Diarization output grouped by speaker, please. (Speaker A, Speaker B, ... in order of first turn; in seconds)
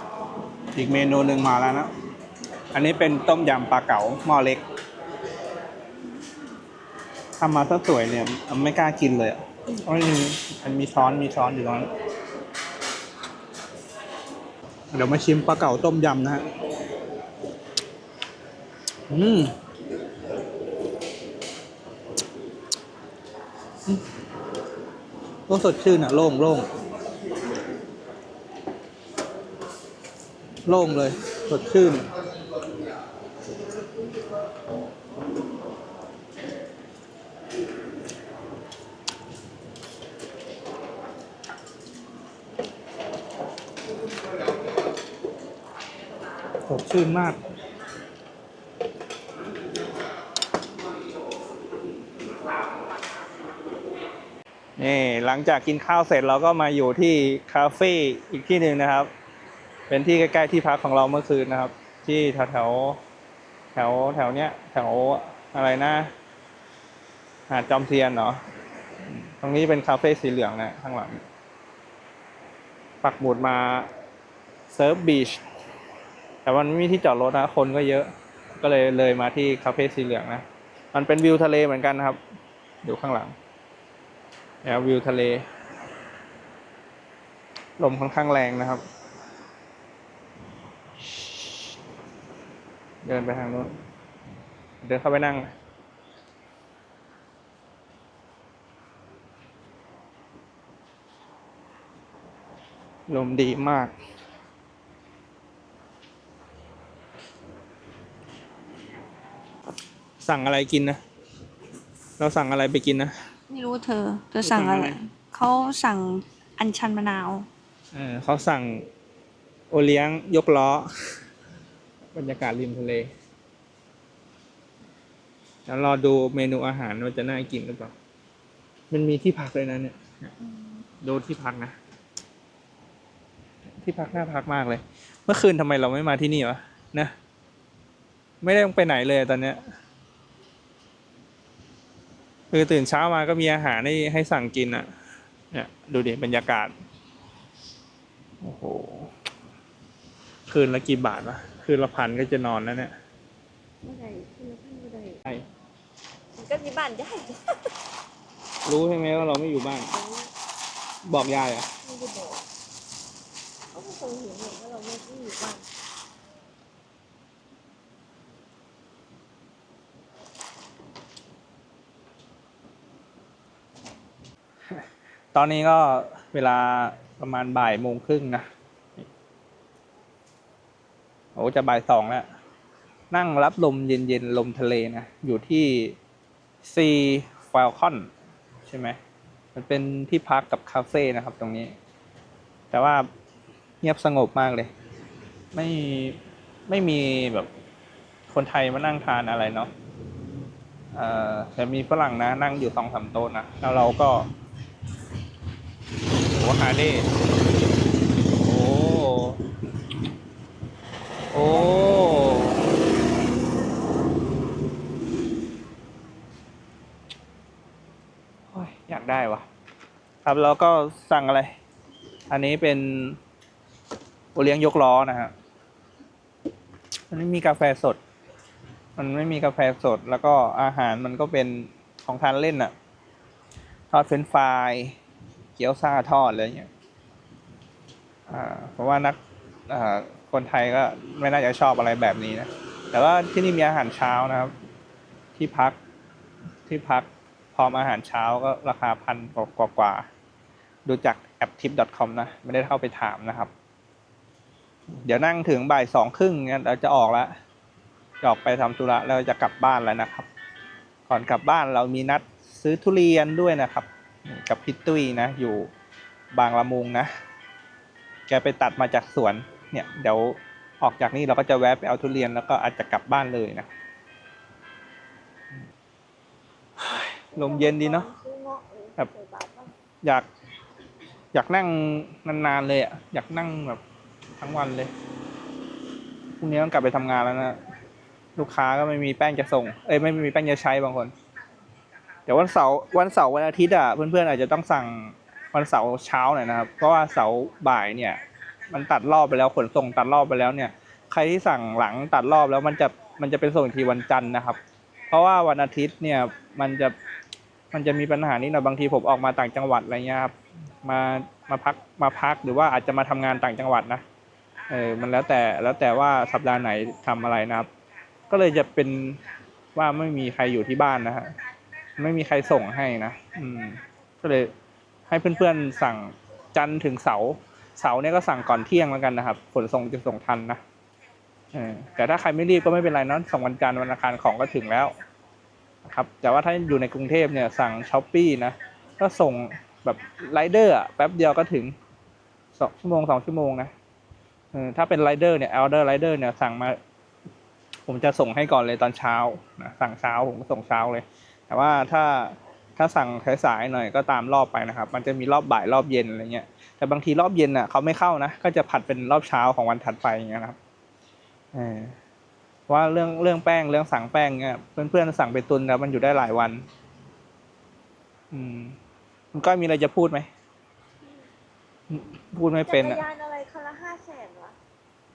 Speaker A: 0.7-1.9, 2.7-4.6, 7.4-11.9, 14.9-16.5, 19.1-19.5, 25.5-26.7, 30.7-32.1, 46.7-47.4, 54.8-59.1, 59.9-63.0, 63.8-66.1, 67.5-68.4, 69.1-71.2, 73.0-73.9, 74.7-75.4, 76.5-82.2, 82.8-83.3, 84.6-85.4, 87.8-88.8, 93.0-93.7, 94.8-95.5, 103.1-103.9, 110.2-111.0, 112.2-113.1, 114.4-115.0, 117.9-118.9, 119.7-120.9, 122.1-123.1, 125.7-127.9, 128.9-130.3, 131.0-131.8, 133.8-137.1, 138.4-139.6, 142.5-144.9, 145.5-146.7, 148.4-149.1, 150.5-152.9, 158.7-159.9, 161.1-161.7, 175.3-178.5, 181.4-182.3, 183.1-186.0, 186.6-188.1, 188.7-189.0, 189.6-191.8, 192.7-193.1, 193.8-194.7, 195.5-197.5, 198.3-199.7, 200.9-204.3, 206.3-207.1, 208.4-209.4, 211.3-212.7, 218.5-219.5, 220.2-221.5, 222.3-223.2, 224.3-225.3, 227.1-228.0, 229.0-232.7, 233.9-235.0, 235.6-236.7, 238.3-239.2, 239.7-244.5, 245.4-245.8, 246.7-250.1, 250.9-253.5, 255.0-257.3, 258.2-260.3, 261.1-265.7, 266.3-267.1, 268.3-273.7, 276.8-278.1, 281.3-283.8, 284.4-284.9, 286.4-287.6, 288.4-291.1, 292.3-298.2, 298.7-304.6, 305.1-306.9, 307.7-314.0, 314.7-317.7, 318.3-319.2, 319.8-321.3, 322.0-324.5, 325.1-330.6, 331.5-334.9, 335.8-341.8, 342.6-343.7, 344.5-346.8, 347.9-360.6, 361.5-361.9, 362.7-366.6, 368.3-368.8, 369.3-370.3, 371.9-373.0
Speaker B: 6.0-6.4, 153.8-155.2, 156.4-157.6, 159.9-160.3, 161.8-162.4, 163.7-165.7, 277.3-279.7, 372.7-374.6
Speaker C: 113.5-117.5